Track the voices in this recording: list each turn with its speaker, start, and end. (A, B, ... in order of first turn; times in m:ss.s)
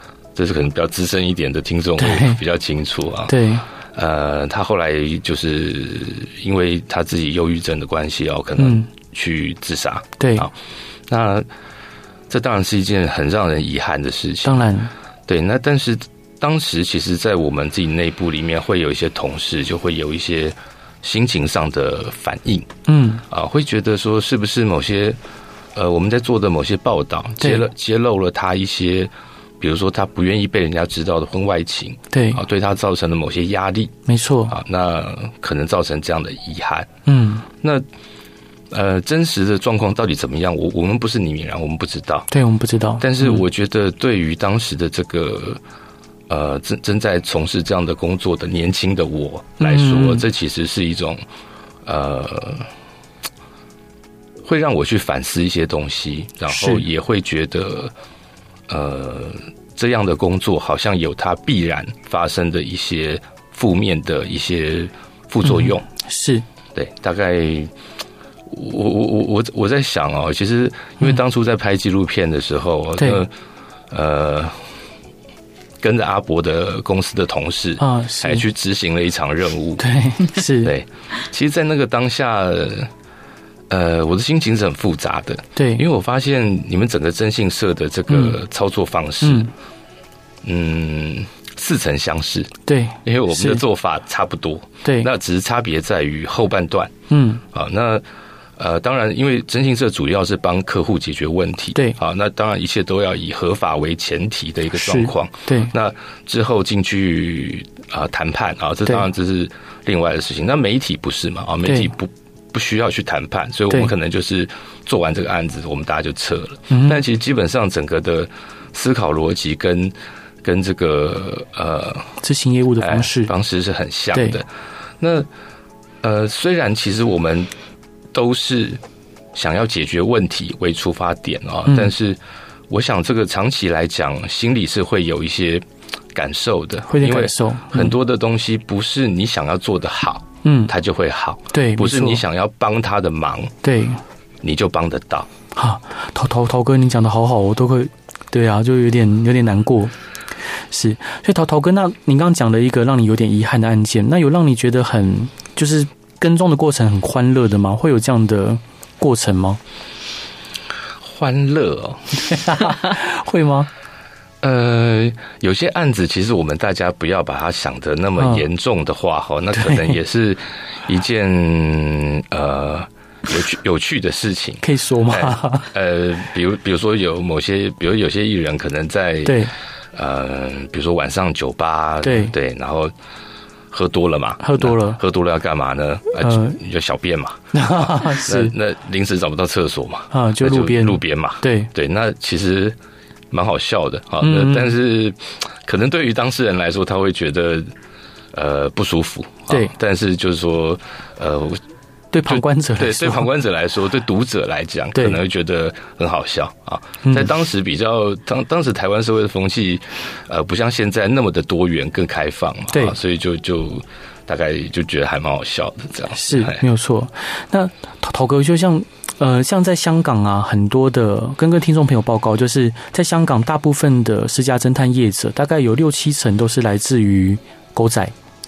0:00.4-0:03.4 A
0:02.0-0:02.4 B
0:03.3-0:03.6 B
0:03.9-0:10.5 A
0:08.6-0:08.9 B
0:10.2-0:10.5 B
0:11.1-0:11.4 A
0:12.3-0:14.7 A
0:14.4-0:14.9 B
0:15.3-0:22.7 A
0:22.9-0:23.2 B
0:23.3-0:25.2 A
0:25.7-0:33.9 A
0:27.4-0:27.7 B
0:32.1-0:32.4 B
0:34.0-0:34.6 B
0:34.5-0:36.9 A
0:37.0-0:37.4 B
0:38.7-0:42.3 A
0:42.3-0:43.4 B
0:43.0-0:45.6 A
0:46.3-0:51.2 A
0:49.6-0:50.2 B
0:51.8-0:52.7 A
0:54.4-0:57.9 A
0:56.5-0:56.8 B
0:58.7-1:05.8 A
1:05.4-1:06.4 B
1:06.7-1:07.7 A
1:08.5-1:13.3 A
1:13.0-1:13.2 B
1:13.9-1:14.6 A
1:15.8-1:19.8 A
1:17.8-1:18.4 B
1:19.8-1:20.7 B
1:20.6-1:22.9 A
1:23.7-1:29.5 A
1:25.6-1:25.8 B
1:28.1-1:28.4 B
1:29.2-1:29.5 B
1:30.4-1:32.5 A
1:32.6-1:33.6 B
1:33.0-1:36.9 A
1:34.8-1:35.1 B
1:37.1-1:37.4 B
1:37.5-1:38.0 A
1:38.6-2:02.2 A
1:44.7-1:45.7 B
1:51.6-1:51.9 B
1:56.7-1:57.0 B
2:02.2-2:03.3 B
2:02.8-2:04.5 A
2:04.1-2:04.4 B
2:05.0-2:05.3 A
2:06.0-2:07.5 A
2:08.1-2:08.8 A
2:09.3-2:23.5 A
2:16.9-2:17.9 B
2:20.4-2:20.7 B
2:21.5-2:22.2 B
2:23.6-2:24.0 B
2:24.4-2:25.3 A
2:25.5-2:29.9 B
2:30.7-2:39.6 B
2:41.0-2:42.2 A
2:42.2-2:43.7 B
2:44.4-3:02.9 A
2:49.5-2:50.0 B
2:54.6-2:55.7 B
2:59.2-2:59.5 B
3:02.0-3:02.3 B
3:03.7-3:12.8 A
3:04.4-3:05.0 B
3:06.2-3:06.6 B
3:07.5-3:08.5 B
3:10.1-3:11.7 B
3:13.3-3:17.7 A
3:14.2-3:14.7 B
3:18.3-3:21.6 A
3:22.1-3:23.3 B
3:22.3-3:36.6 A
3:24.9-3:25.2 B
3:27.0-3:27.3 B
3:32.7-3:33.0 B
3:36.1-3:48.1 B